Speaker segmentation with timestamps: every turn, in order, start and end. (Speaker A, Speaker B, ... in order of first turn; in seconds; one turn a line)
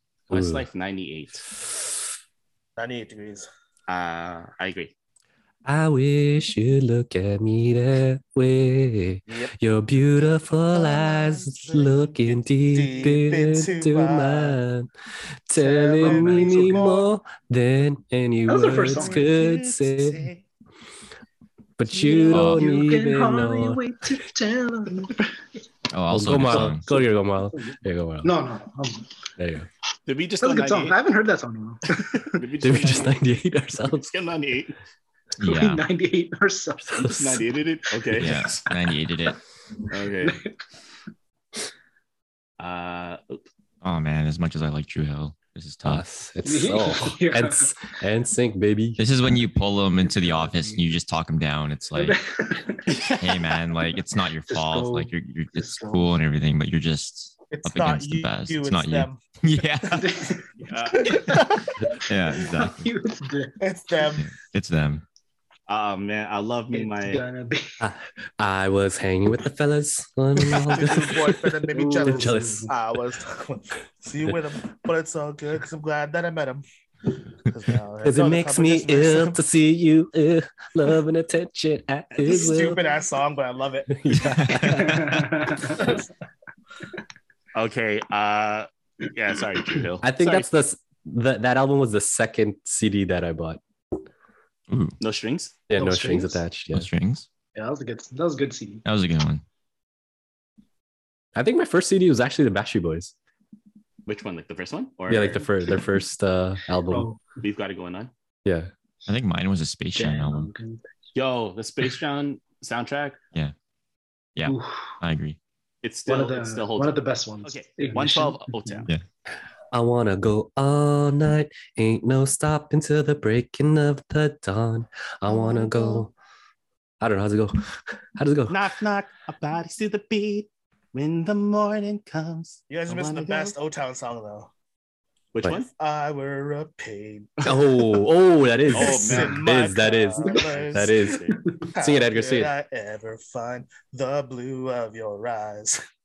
Speaker A: 0.3-1.4
Speaker B: 0.3-0.7
Speaker C: 2.8-3.5
Speaker A: 3.9-4.9
Speaker B: 5.6-14.9
Speaker C: 10.8-11.6
Speaker C: 12.7-14.6
Speaker B: 15.5-20.3
Speaker C: 15.6-17.1
Speaker D: 16.0-16.9
Speaker D: 18.5-19.3
Speaker A: 18.8-20.4
Speaker B: 21.8-23.8
Speaker D: 21.9-25.4
Speaker E: 22.3-22.7
Speaker E: 25.9-26.8
Speaker B: 26.1-28.3
Speaker D: 26.9-29.1
Speaker B: 29.4-29.7
Speaker A: 30.1-31.0
Speaker D: 30.4-32.3
Speaker A: 32.1-33.2
Speaker B: 32.6-34.1
Speaker A: 33.9-34.8
Speaker E: 35.4-35.8
Speaker D: 35.4-37.4
Speaker B: 36.9-37.4
Speaker A: 37.0-38.7
Speaker E: 38.1-39.4
Speaker A: 39.9-40.4
Speaker D: 40.2-40.6
Speaker A: 42.6-43.4
Speaker E: 43.8-46.0
Speaker B: 45.8-49.0
Speaker D: 46.4-47.7
Speaker E: 49.0-52.2
Speaker D: 50.1-50.8
Speaker D: 52.0-52.9
Speaker A: 52.9-53.6
Speaker E: 53.2-60.2
Speaker D: 54.5-56.1
Speaker C: 57.5-59.2
Speaker D: 59.9-63.6
Speaker A: 60.6-61.6
Speaker C: 60.9-61.6
Speaker E: 61.8-62.9
Speaker C: 63.6-64.3
Speaker E: 64.2-65.0
Speaker A: 65.7-67.2
Speaker D: 66.7-67.8
Speaker B: 67.8-72.7
Speaker C: 70.6-76.6
Speaker D: 71.7-72.7
Speaker C: 77.5-79.4
Speaker B: 78.0-82.8
Speaker C: 82.2-84.0
Speaker D: 82.3-82.6
Speaker B: 83.9-85.2
Speaker E: 84.2-85.4
Speaker D: 84.6-86.0
Speaker A: 87.5-90.5
Speaker B: 90.0-93.6
Speaker E: 94.7-95.0
Speaker A: 95.0-95.5
Speaker B: 95.7-96.9
Speaker D: 95.7-96.4
Speaker E: 96.7-97.2
Speaker D: 97.5-98.8
Speaker E: 98.8-99.4
Speaker B: 101.3-103.1
Speaker A: 104.0-105.5
Speaker B: 105.1-107.1
Speaker D: 106.9-107.2
Speaker A: 107.4-108.1
Speaker B: 108.4-108.7
Speaker E: 109.1-110.5
Speaker D: 109.9-110.9
Speaker A: 111.1-113.2
Speaker E: 114.3-115.4
Speaker D: 114.5-115.0
Speaker A: 115.8-118.9
Speaker D: 116.1-118.9
Speaker B: 119.7-126.1
Speaker B: 127.0-128.6
Speaker A: 128.5-133.5
Speaker C: 132.7-134.5
Speaker A: 135.3-135.7
Speaker C: 135.8-137.5
Speaker B: 137.4-142.5
Speaker A: 138.7-139.4
Speaker C: 138.7-141.2
Speaker A: 140.2-141.4
Speaker C: 141.8-145.8